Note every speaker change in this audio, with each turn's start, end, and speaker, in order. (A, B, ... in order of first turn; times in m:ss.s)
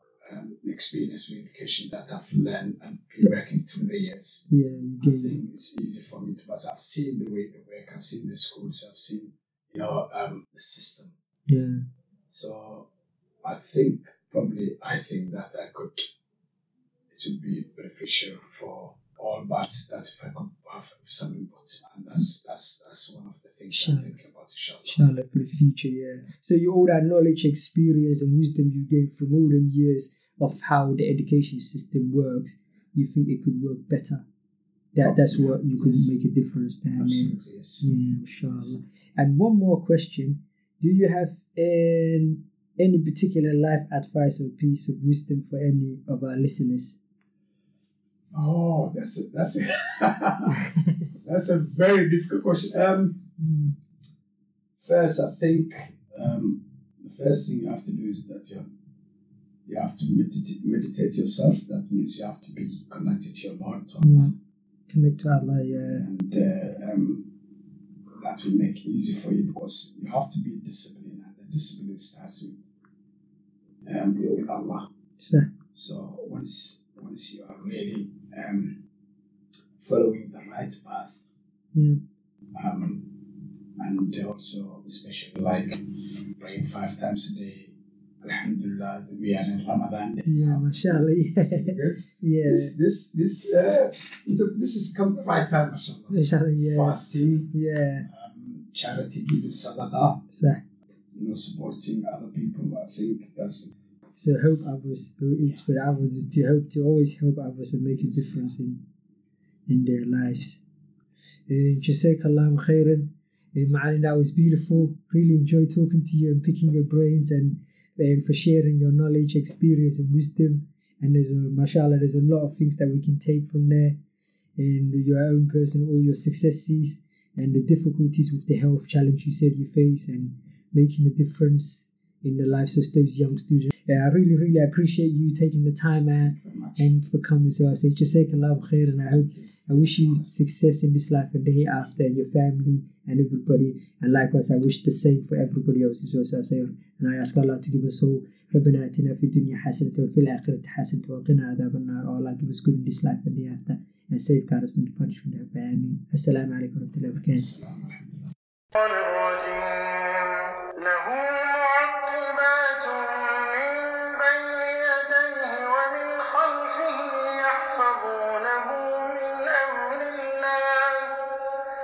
0:00.2-0:04.4 A
0:04.5-0:05.4 B
0:05.0-0:11.1 A
0:11.5-0:11.8 B
0:12.3-0:12.9 A
0:13.4-0:16.1 A
0:17.1-0:25.0 A
0:23.7-0:24.1 B
0:24.8-0:34.2 B
0:34.9-0:47.0 B
0:35.0-0:36.1 A
0:37.0-0:37.9 A
0:38.4-0:38.8 A
0:48.3-0:50.7 A
0:51.2-0:53.2 A
0:53.4-0:53.7 B
0:54.8-0:58.6 A
0:59.6-1:04.3 A
1:04.0-1:04.3 B
1:04.9-1:06.1 B
1:05.8-1:07.3 A
1:08.2-1:12.7 A
1:13.8-1:14.9 A
1:15.2-1:15.5 B
1:15.7-1:18.8 A
1:19.8-1:21.2 A
1:22.5-1:23.2 A
1:23.8-1:25.8 A
1:26.3-1:37.5 A
1:30.2-1:32.7 B
1:36.1-1:37.0 B
1:37.5-1:38.1 B
1:38.1-1:40.2 A
1:40.3-1:40.6 B
1:41.1-1:43.7 A
1:44.2-1:48.8 B
1:48.0-1:48.5 A
1:49.7-1:50.6 B
1:51.5-2:04.0 B
2:04.6-2:37.5 B
2:16.2-2:16.9 A
2:19.1-2:20.3 A
2:37.3-2:38.3 A
2:38.7-2:51.6 C